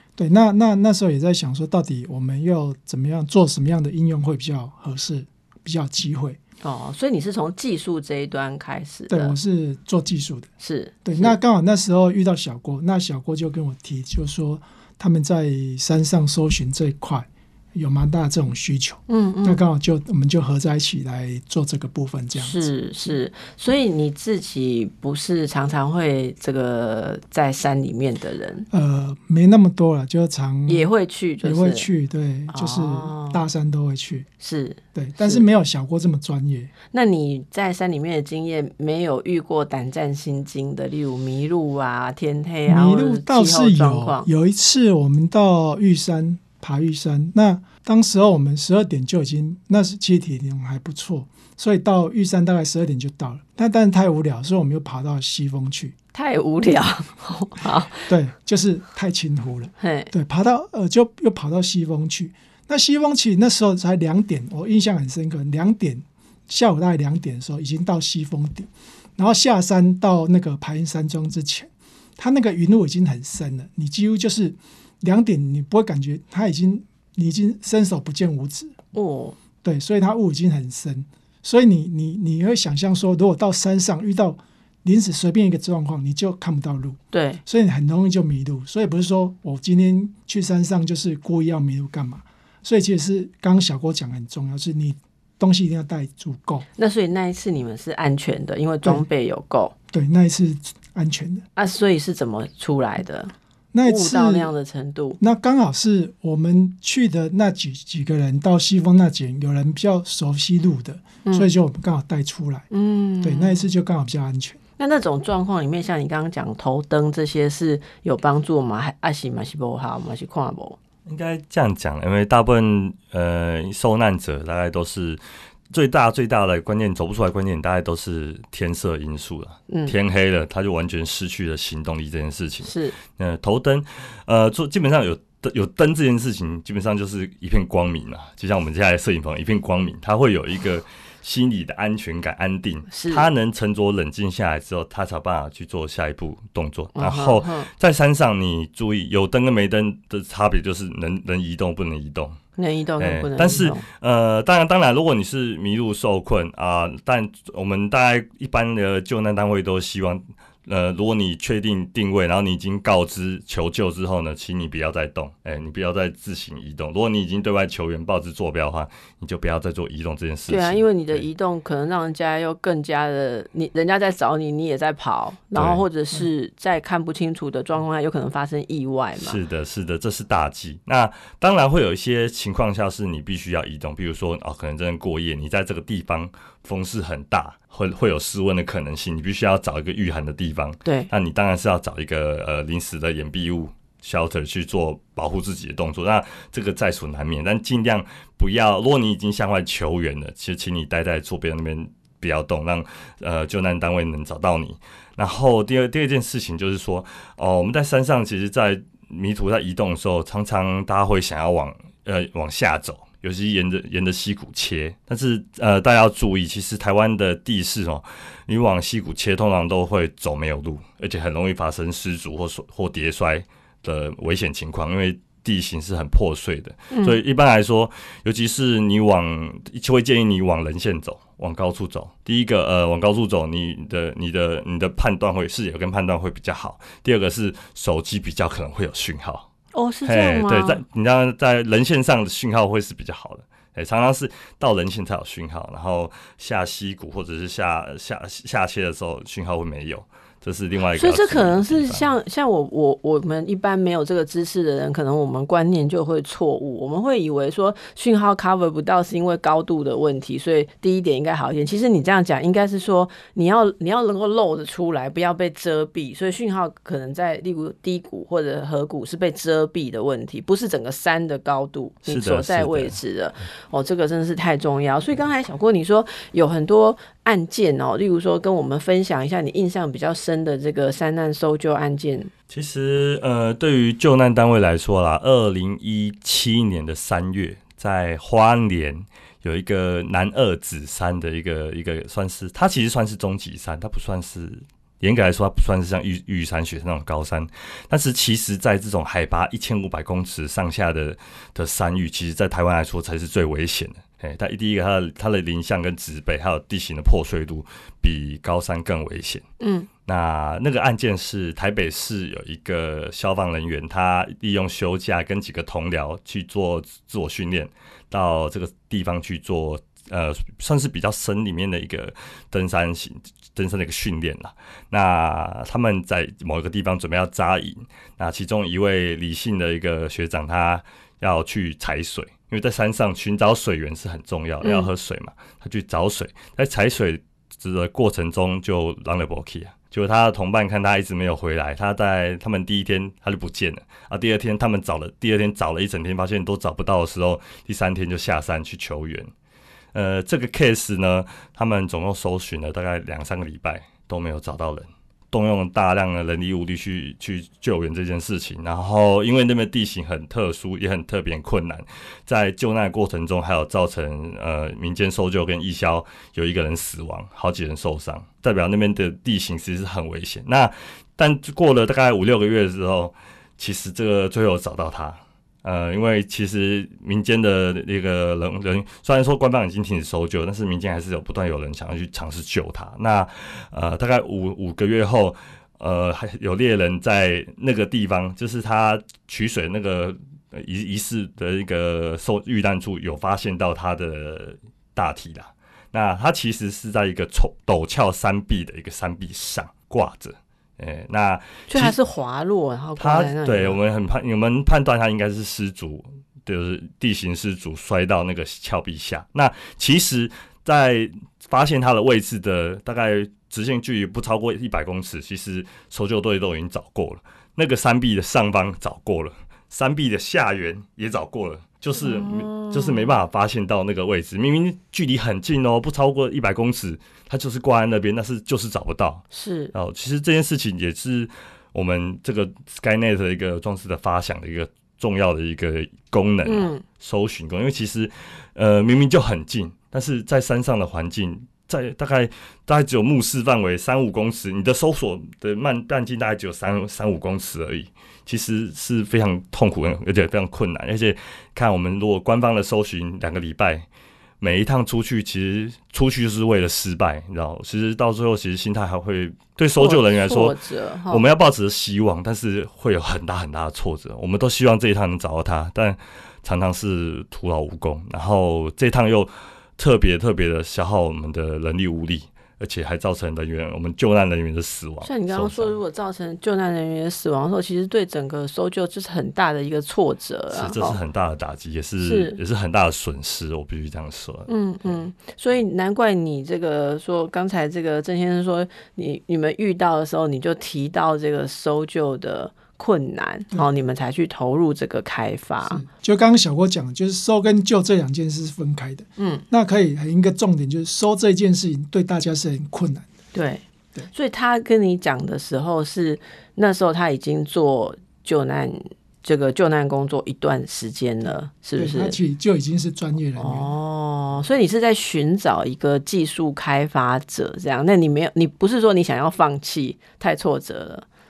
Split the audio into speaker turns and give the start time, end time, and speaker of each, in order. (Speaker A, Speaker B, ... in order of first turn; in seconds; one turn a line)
Speaker A: 0.2-6.4
Speaker B: 6.6-9.3
Speaker A: 9.1-10.5
Speaker B: 10.6-11.3
Speaker A: 11.0-22.6
Speaker B: 19.1-19.6
Speaker B: 22.3-28.7
Speaker A: 28.7-30.9
Speaker B: 30.7-31.9
Speaker A: 31.4-34.3
Speaker B: 32.5-33.4
Speaker B: 34.4-35.4
Speaker A: 34.9-36.7
Speaker B: 36.9-44.3
Speaker A: 42.7-55.9
Speaker B: 56.1-58.1
Speaker A: 58.1-78.7
Speaker B: 59.8-60.1
Speaker B: 78.9-79.4
Speaker A: 79.6-96.7
Speaker B: 87.1-87.4
Speaker B: 96.8-99.7
Speaker A: 99.9-101.4
Speaker B: 101.5-103.3
Speaker A: 103.7-104.5
Speaker B: 103.8-105.2
Speaker A: 105.2-112.7
Speaker B: 111.2-111.5
Speaker B: 112.7-113.7
Speaker A: 113.2-114.6
Speaker B: 114.8-120.8
Speaker C: 121.0-152.4
Speaker B: 129.7-129.9
Speaker B: 132.6-132.9
Speaker B: 142.9-143.3
Speaker B: 146.9-147.7
Speaker B: 152.6-153.8
Speaker C: 153.0-171.3
Speaker B: 170.5-179.4
Speaker C: 175.5-175.8
Speaker C: 179.2-239.5
Speaker B: 190.8-191.1
Speaker B: 226.9-227.2
Speaker B: 239.7-240.8
Speaker C: 240.1-252.1
Speaker B: 250.9-282.3
Speaker C: 272.0-273.0
Speaker C: 282.5-309.4
Speaker B: 309.6-309.9
Speaker C: 310.1-349.3
Speaker B: 334.6-334.9
Speaker C: 349.9-401.9
Speaker B: 401.7-403.8
Speaker C: 403.0-453.9
Speaker B: 422.0-423.1
Speaker B: 429.3-429.7
Speaker B: 436.4-436.8
Speaker C: 454.4-460.6
Speaker B: 459.8-461.2
Speaker C: 461.1-475.8
Speaker B: 475.0-480.9
Speaker C: 480.5-485.0
Speaker B: 482.0-482.4
Speaker B: 484.5-495.8
Speaker A: 495.6-503.1
Speaker B: 499.2-499.4
Speaker B: 503.3-512.1
Speaker A: 511.8-513.7
Speaker B: 513.4-521.0